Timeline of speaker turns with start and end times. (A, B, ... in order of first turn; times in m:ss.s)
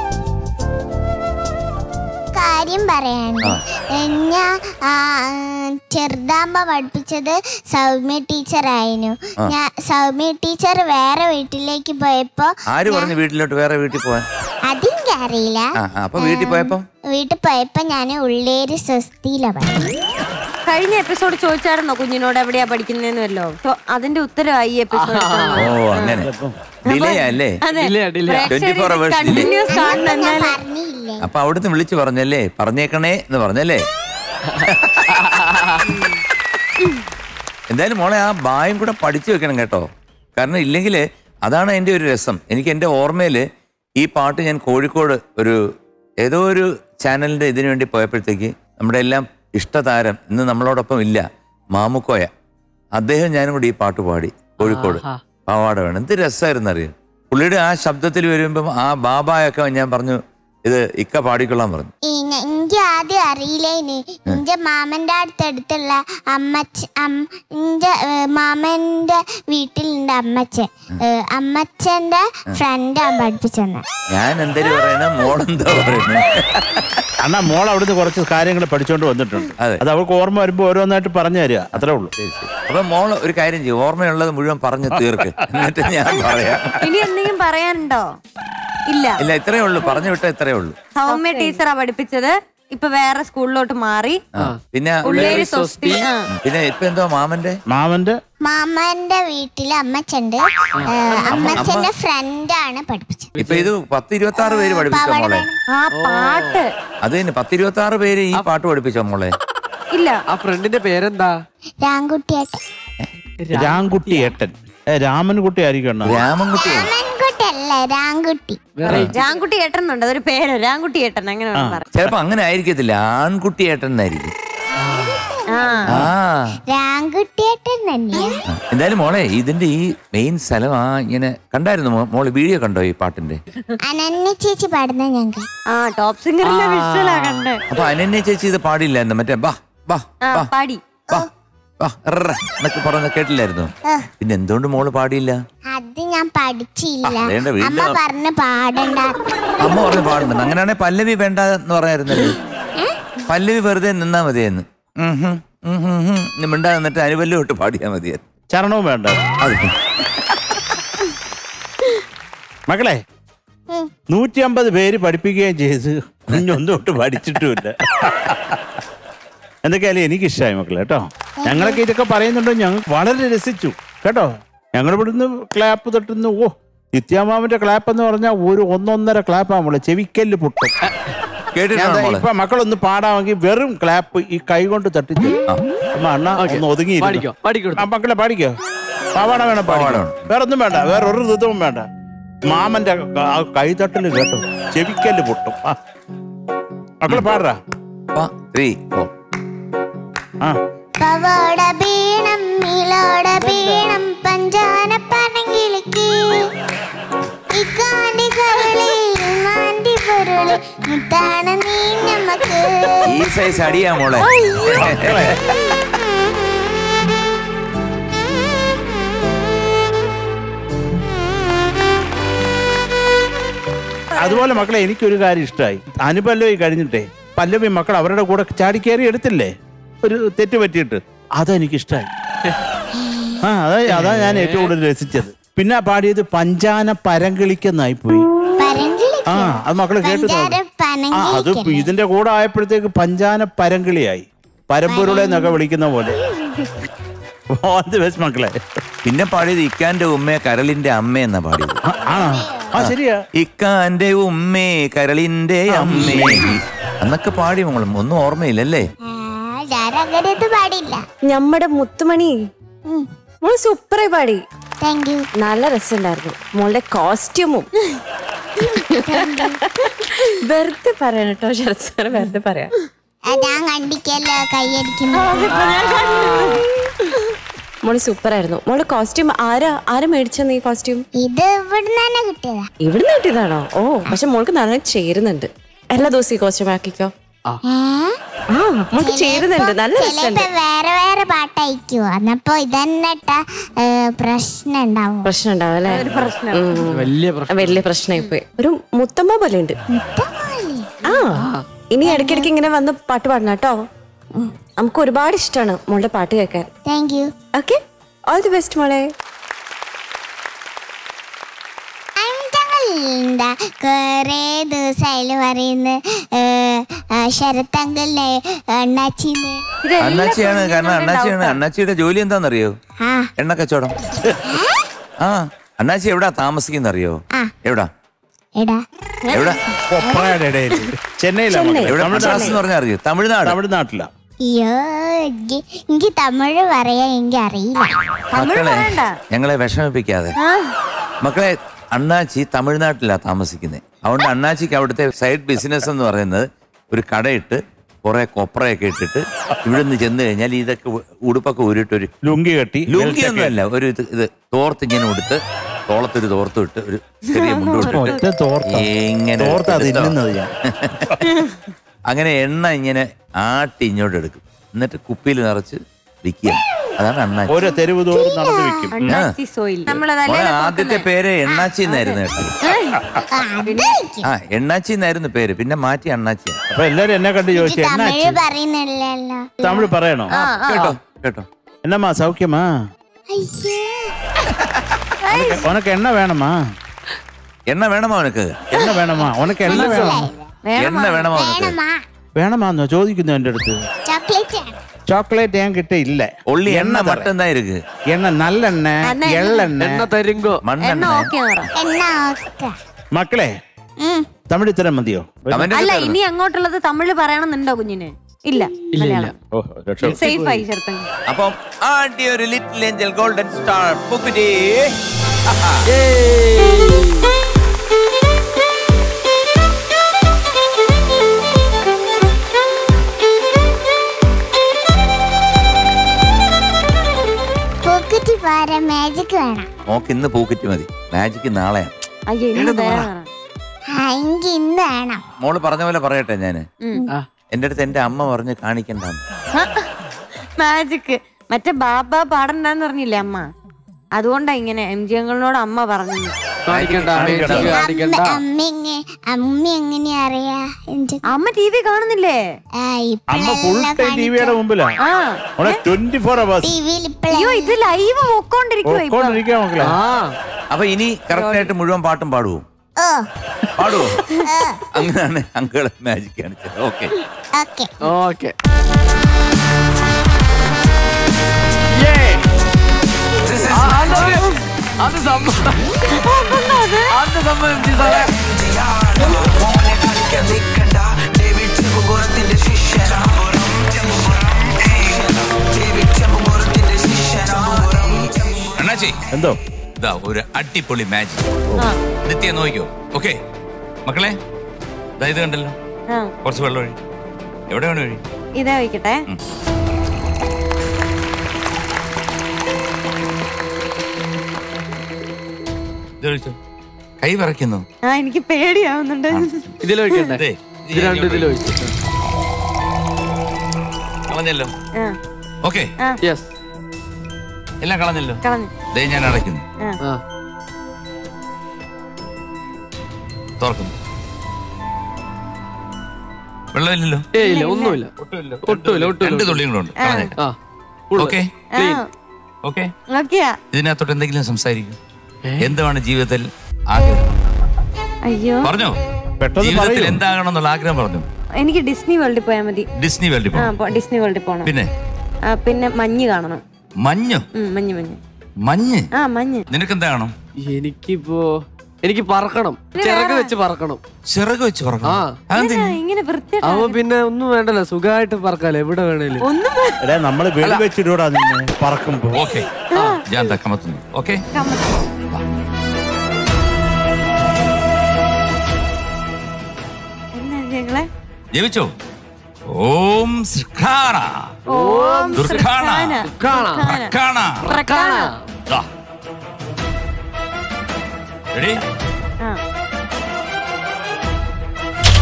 0:02.3-0:13.2 A
0:12.7-0:14.2 B
0:14.7-0:19.9 A
0:15.8-0:16.8 B
0:20.7-0:26.2 C
0:24.9-0:25.7 D
0:25.6-0:26.3 B
0:26.2-0:26.6 E
0:26.9-0:27.6 B
0:26.9-0:30.6 C
0:27.7-0:28.5 D
0:28.5-0:29.5 B
0:29.5-0:31.3 A
0:31.2-0:33.8 B
0:34.5-0:35.8 D
0:34.7-0:35.0 B
0:35.8-0:36.2 C
0:37.7-0:43.4 B
0:44.0-0:45.6 B
0:46.2-0:52.3 B
0:53.0-1:01.9 B
0:54.6-0:55.2 D
1:02.1-1:13.8 A
1:14.1-1:17.0 B
1:17.2-1:22.1 E
1:19.6-1:19.8 B
1:21.8-1:26.8 B
1:24.9-1:25.7 E
1:26.8-1:28.1 C
1:28.9-1:29.2 C
1:29.2-1:30.8 B
1:31.0-1:34.2 C
1:31.2-1:31.5 F
1:34.4-1:35.4 B
1:34.4-1:36.1 D
1:35.0-1:36.3 C
1:36.4-1:37.6 B
1:37.7-1:38.2 E
1:38.5-1:43.3 A
1:40.9-1:41.6 C
1:41.4-1:41.9 B
1:43.4-1:43.7 D
1:43.4-1:45.4 B
1:44.4-1:45.6 A
1:45.7-1:46.7 C
1:45.9-1:46.6 D
1:47.0-1:49.4 B
1:49.9-1:50.2 C
1:50.3-1:51.4 D
1:51.8-1:52.6 A
1:53.5-1:56.2 E
1:53.5-1:54.3 D
1:56.0-1:56.9 B
1:56.6-1:58.6 A
1:58.8-1:59.2 D
1:58.9-1:59.2 B
1:58.9-2:01.8 C
2:01.6-2:01.8 E
2:01.9-2:04.3 B
2:04.8-2:05.2 D
2:04.8-2:06.0 A
2:05.5-2:06.1 C
2:05.9-2:06.4 B
2:06.7-2:08.4 A
2:08.5-2:13.4 B
2:13.8-2:15.5 A
2:15.7-2:17.6 C
2:16.4-2:17.5 D
2:17.7-2:20.5 B
2:20.2-2:21.2 C
2:21.8-2:25.4 B
2:25.7-2:30.0 A
2:27.0-2:28.0 B
2:29.6-2:32.4 B
2:33.3-2:38.2 B
2:38.5-2:39.3 E
2:39.4-2:39.7 B
2:42.7-2:43.0 E
2:44.1-2:48.6 E
2:49.6-3:00.8 E
2:51.4-2:51.8 A
3:01.5-3:02.2 B
3:01.7-3:05.4 E
3:06.0-3:08.6 E
3:06.4-3:07.9 D
3:09.2-3:11.9 E
3:09.7-3:10.2 B
3:12.5-3:15.8 E
3:17.0-3:17.6 E
3:17.1-3:17.4 B
3:18.1-3:19.1 B
3:21.0-3:26.5 A
3:27.5-3:33.3 A
3:33.1-3:35.4 B
3:34.7-3:35.4 E
3:44.2-3:52.1 E
3:53.0-3:53.4 A
3:53.4-3:58.3 E
3:53.9-3:54.8 D
3:58.6-4:01.9 A
3:59.3-4:00.6 E
4:01.2-4:06.2 E
4:04.9-4:05.6 A
4:06.2-4:06.7 A
4:07.5-4:08.7 E
4:09.0-4:11.8 B
4:11.9-4:13.2 E
4:12.1-4:12.7 A
4:12.8-4:18.9 B
4:15.7-4:16.5 E
4:16.2-4:16.5 A
4:19.1-4:21.0 A
4:21.3-4:22.4 F
4:23.4-4:24.4 F
4:24.8-4:25.2 A
4:25.4-4:27.7 F
4:28.6-4:29.5 F
4:28.8-4:29.6 A
4:30.4-4:32.7 F
4:33.3-4:35.4 A
4:35.2-4:36.7 C
4:35.4-4:36.6 F
4:35.5-4:36.6 D
4:37.8-4:41.1 F
4:41.2-4:42.7 A
4:42.9-4:47.1 F
4:47.6-4:48.2 A
4:48.5-4:50.5 F
4:49.0-4:55.3 A
4:55.2-4:59.8 F
4:55.8-4:56.8 C
4:56.9-4:57.8 D
4:59.9-5:00.9 A
5:01.1-5:03.8 F
5:01.4-5:01.6 D
5:02.0-5:02.5 A
5:04.8-5:06.7 F
5:06.9-5:07.3 A
5:08.3-5:09.1 F
5:12.2-5:19.6 A
5:19.8-5:21.6 C
5:20.0-5:22.8 B
5:23.0-5:23.3 A
5:23.4-5:24.0 B
5:24.5-5:24.9 A
5:25.2-5:27.9 B
5:28.6-5:28.8 A
5:29.3-5:29.6 C
5:29.3-5:29.6 B
5:29.9-5:32.6 E
5:31.5-5:32.4 F
5:31.9-5:33.6 B
5:33.4-5:34.1 E
5:34.4-5:38.0 A
5:38.3-5:39.2 C
5:38.3-5:40.4 B
5:40.4-5:40.7 C
5:41.2-5:52.1 B
5:52.2-5:53.6 E
5:52.9-6:00.2 B
5:57.3-5:58.2 C
5:57.9-5:58.9 E
5:59.4-6:00.5 E
6:00.7-6:01.1 B
6:02.1-6:07.5 B
6:07.5-6:09.2 E
6:08.1-6:08.8 A
6:08.9-6:11.1 C
6:09.0-6:09.3 B
6:10.2-6:12.6 B
6:11.8-6:13.0 C
6:13.3-6:14.3 A
6:13.7-6:14.0 C
6:14.2-6:16.6 B
6:16.7-6:18.4 E
6:17.6-6:19.8 A
6:19.6-6:20.3 E
6:20.3-6:21.0 C
6:20.4-6:21.5 B
6:21.8-6:22.7 E
6:23.3-6:24.1 A
6:25.3-6:25.6 C
6:25.3-6:26.6 E
6:27.7-6:28.7 B
6:28.7-6:30.3 E
6:29.6-6:30.4 A
6:29.7-6:31.3 C
6:30.8-6:31.8 B
6:31.3-6:32.0 A
6:32.4-6:33.8 E
6:34.0-6:34.8 A
6:35.1-6:37.3 E
6:36.5-6:37.8 B
6:38.1-6:40.1 E
6:39.0-6:39.7 C
6:39.8-6:40.6 D
6:40.6-6:41.3 B
6:40.8-6:41.7 C
6:41.8-6:42.7 A
6:43.1-6:43.6 E
6:44.0-6:44.3 A
6:44.5-6:45.7 E
6:45.5-6:46.2 B
6:45.7-6:49.3 C
6:49.0-6:49.3 D
6:49.5-6:50.2 E
6:50.1-6:50.6 D
6:50.1-6:51.1 C
6:51.3-6:55.8 B
6:55.9-6:57.1 D
7:07.8-7:09.7 A
7:09.9-7:11.9 B
7:12.3-7:13.3 C
7:12.6-7:13.1 D
7:13.9-7:15.2 A
7:15.4-7:16.6 B
7:17.5-7:19.2 B
7:19.5-7:19.8 C
7:20.6-7:23.5 C
7:24.2-7:26.3 C
7:26.7-7:28.4 D
7:26.7-7:27.8 B
7:27.2-7:27.8 E
7:27.7-7:31.2 A
7:31.3-7:32.4 C
7:32.8-7:34.6 A
7:33.3-7:35.0 E
7:35.0-7:35.8 C
7:35.6-7:36.8 E
7:36.6-7:37.8 A
7:37.3-7:39.4 C
7:38.8-7:40.0 E
7:39.8-7:40.3 D
7:40.7-7:42.6 B
7:41.3-7:41.7 C
7:43.0-7:43.3 A
7:43.8-7:44.2 B
7:44.5-7:44.9 A
7:44.9-7:47.1 B
7:47.6-7:47.9 A
7:48.0-7:48.6 D
7:52.0-7:52.4 D
7:53.4-7:54.4 B
7:53.7-7:55.9 D
7:54.0-7:54.6 C
7:56.1-7:57.1 C
7:57.1-7:58.3 D
7:59.2-8:09.3 B
8:09.3-8:09.6 E
8:10.0-8:11.6 B
8:12.2-8:13.4 B
8:14.1-8:14.4 B
8:15.2-8:15.8 B
8:16.4-8:17.0 B
8:17.7-8:18.2 B
8:18.6-8:19.2 C
8:26.2-8:26.6 B
8:27.2-8:27.8 B
8:28.0-8:30.3 C
8:29.8-8:31.9 D
8:30.4-8:31.7 B
8:34.3-8:34.7 B
8:35.6-8:35.9 B
8:36.2-8:36.5 D
8:37.8-8:38.4 B
8:38.4-8:38.7 C
8:38.9-8:39.6 B
8:43.6-8:43.9 B
8:46.7-8:47.3 B
8:47.4-8:48.1 D
8:47.4-8:48.0 C
8:48.2-8:50.3 B
8:48.6-8:49.6 D
8:50.0-8:50.3 C
8:51.1-8:52.0 D
8:51.2-8:51.5 B
8:51.7-8:52.1 C
8:52.6-8:52.9 B
8:53.1-8:53.6 C
8:53.7-8:55.0 B
8:55.4-8:55.7 D
8:55.6-8:57.3 B
8:58.2-8:58.7 C
8:58.6-8:59.0 B
8:59.4-9:00.2 E
8:59.6-9:01.3 B
9:01.6-9:02.9 C
9:03.0-9:03.7 B
9:03.5-9:04.7 C
9:04.6-9:04.9 B
9:05.5-9:06.6 C
9:07.0-9:07.5 B
9:07.6-9:08.2 C
9:08.6-9:09.1 B
9:09.1-9:09.6 C
9:09.7-9:10.3 B
9:10.6-9:14.0 D
9:12.9-9:13.5 C
9:14.3-9:16.0 B
9:15.0-9:15.4 D
9:15.5-9:17.0 C
9:16.6-9:19.4 D
9:19.4-9:20.0 C
9:20.0-9:22.5 E
9:22.3-9:24.4 B
9:22.9-9:23.2 C
9:24.5-9:25.1 C
9:30.4-9:31.1 C
9:31.5-9:31.9 B
9:32.7-9:34.6 B
9:34.7-9:37.1 C
9:34.7-9:35.7 D
9:35.3-9:36.3 B
9:36.2-9:37.0 D
9:36.9-9:37.6 B
9:37.6-9:38.3 C
9:37.6-9:38.4 D
9:41.5-9:41.8 B